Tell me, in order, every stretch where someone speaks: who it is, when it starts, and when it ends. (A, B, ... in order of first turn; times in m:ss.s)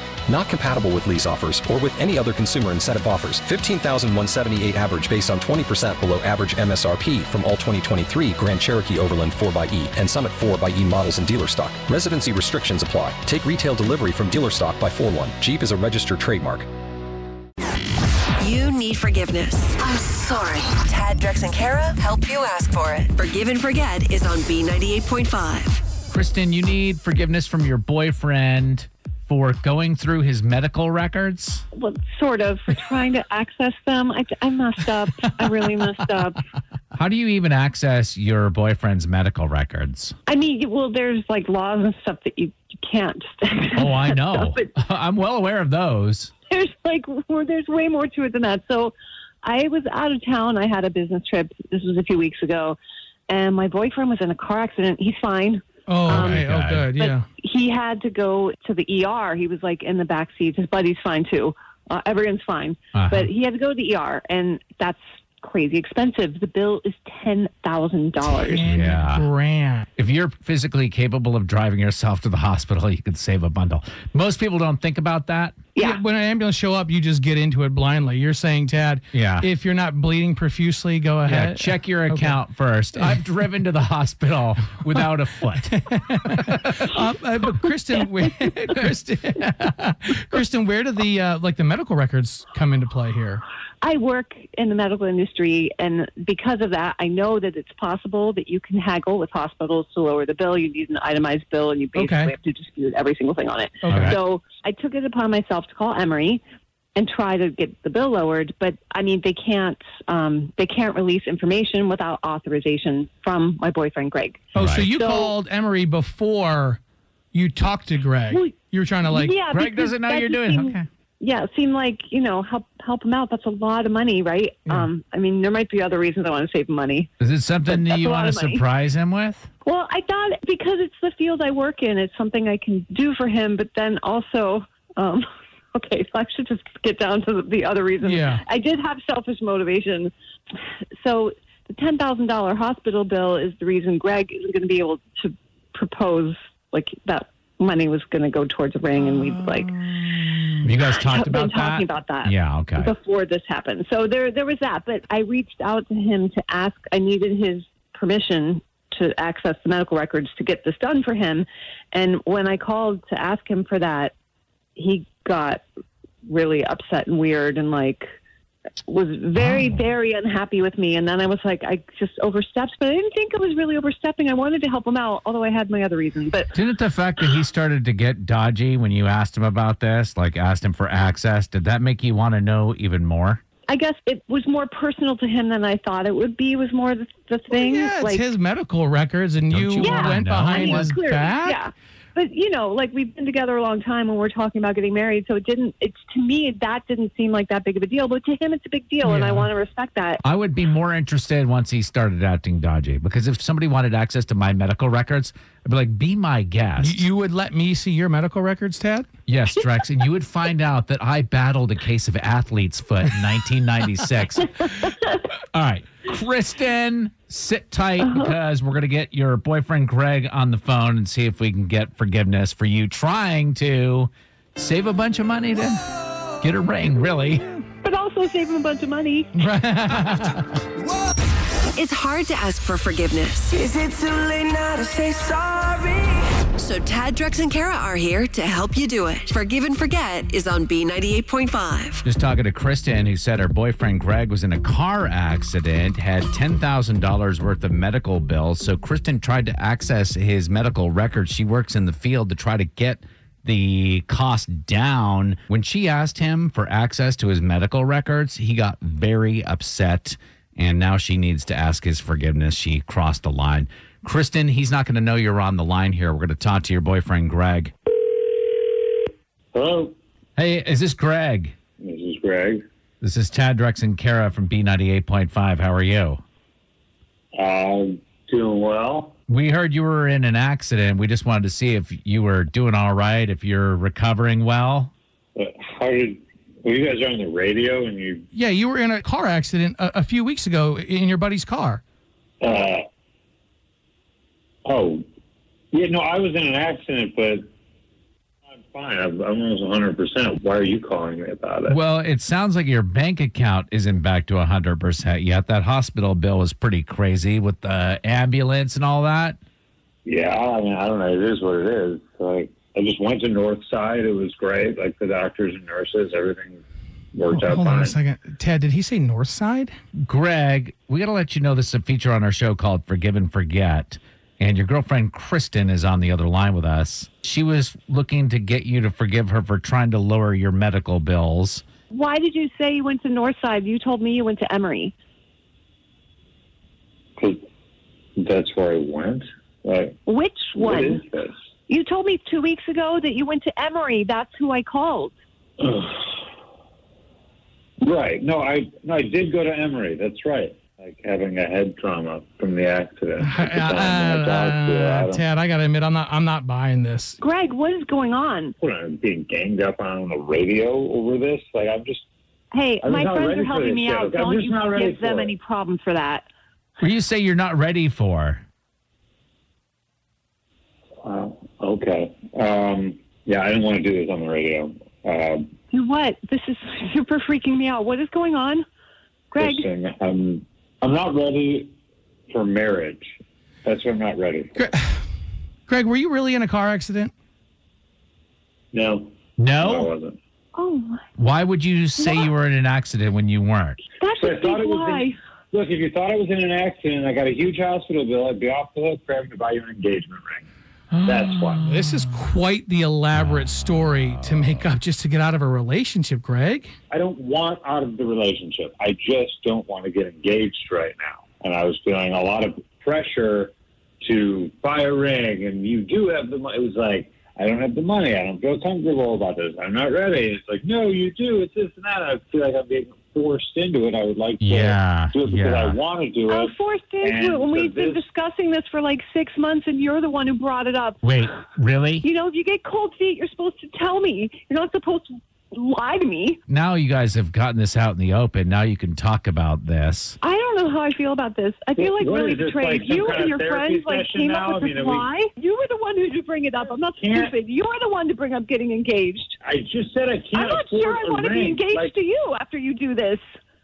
0:00.3-0:16.7 A
0:18.4-0:25.8 B
0:26.1-0:31.6 C
0:31.8-0:36.4 D
0:36.9-0:40.2 C
0:40.3-0:44.6 D
0:43.7-0:46.3 C
0:46.5-0:52.8 D
0:53.3-0:56.4 D
0:55.9-0:57.3 E
0:56.1-0:56.9 C
0:57.0-1:08.6 D
1:02.9-1:03.3 C
1:08.4-1:09.9 E
1:08.6-1:09.3 C
1:10.0-1:15.6 C
1:15.8-1:16.0 D
1:15.8-1:22.4 E
1:19.1-1:19.5 C
1:21.3-1:26.8 C
1:25.8-1:33.4 E
1:33.8-1:46.4 D
1:42.0-1:42.3 E
1:43.8-1:44.2 E
1:43.9-1:44.2 C
1:47.0-1:55.4 D
1:54.6-1:56.8 E
1:54.6-1:54.9 C
1:57.3-1:59.4 E
1:58.3-1:58.6 D
1:59.1-2:07.1 D
1:59.5-2:00.9 C
2:07.2-2:09.5 C
2:07.6-2:08.6 D
2:09.6-2:20.1 D
2:18.0-2:18.4 E
2:21.0-2:44.1 D
2:30.6-2:32.9 C
2:44.8-2:45.6 D
2:46.3-2:48.1 D
2:48.8-2:56.5 D
2:49.4-2:49.8 C
2:56.5-3:03.4 C
3:03.7-3:08.2 D
3:07.5-3:11.6 E
3:09.5-3:11.0 C
3:09.8-3:20.2 D
3:19.0-3:19.5 E
3:20.2-3:27.0 C
3:26.8-3:29.1 E
3:29.3-3:34.9 C
3:35.5-3:45.8 C
3:46.4-3:47.5 C
3:47.8-3:49.3 D
3:49.4-3:50.4 E
3:49.9-3:50.3 C
3:51.8-3:53.7 B
3:53.7-3:56.2 F
3:56.6-4:02.0 B
4:02.0-4:27.7 C
4:29.5-4:30.0 G
4:30.4-4:31.6 C
4:31.8-4:32.6 G
4:33.0-4:36.2 C
4:37.4-4:39.2 G
4:39.3-4:44.9 C
4:45.4-4:48.3 G
4:48.3-4:51.8 E
4:52.4-4:52.8 G
4:54.7-4:55.0 G
4:55.7-4:57.5 G
4:58.5-5:01.8 G
5:01.7-5:09.4 C
5:10.0-5:16.6 G
5:17.1-5:18.0 G
5:17.3-5:19.8 E
5:20.0-5:31.6 C
5:31.9-5:34.9 D
5:38.2-5:40.0 G
5:40.1-5:41.0 D
5:40.6-5:41.3 G
5:41.7-5:45.1 D
5:45.6-5:46.1 G
5:47.8-5:55.2 G
5:53.2-5:57.2 E
5:57.2-5:58.6 D
5:58.6-6:02.0 G
6:02.5-6:06.3 D
6:02.8-6:05.3 G
6:06.8-6:08.4 C
6:11.0-6:15.5 G
6:15.7-6:18.6 D
6:19.3-6:19.7 D
6:19.4-6:21.7 G
6:22.3-6:23.1 G
6:23.6-6:24.6 G
6:24.6-6:25.0 E
6:25.7-6:27.1 E
6:28.7-6:30.2 G
6:29.4-6:29.9 C
6:30.6-6:31.0 D
6:31.2-6:33.8 C
6:32.0-6:32.3 D
6:34.0-6:35.2 D
6:34.2-6:40.5 G
6:41.0-6:42.2 C
6:41.0-6:41.6 G
6:41.7-6:46.7 E
6:46.9-7:08.0 G
7:04.4-7:05.8 C
7:06.3-7:11.0 D
7:11.0-7:12.1 C
7:12.0-7:16.4 D
7:16.5-7:20.2 C
7:20.2-7:29.4 D
7:21.8-7:25.1 G
7:27.0-7:27.3 G
7:29.4-7:31.9 G
7:30.3-7:33.2 D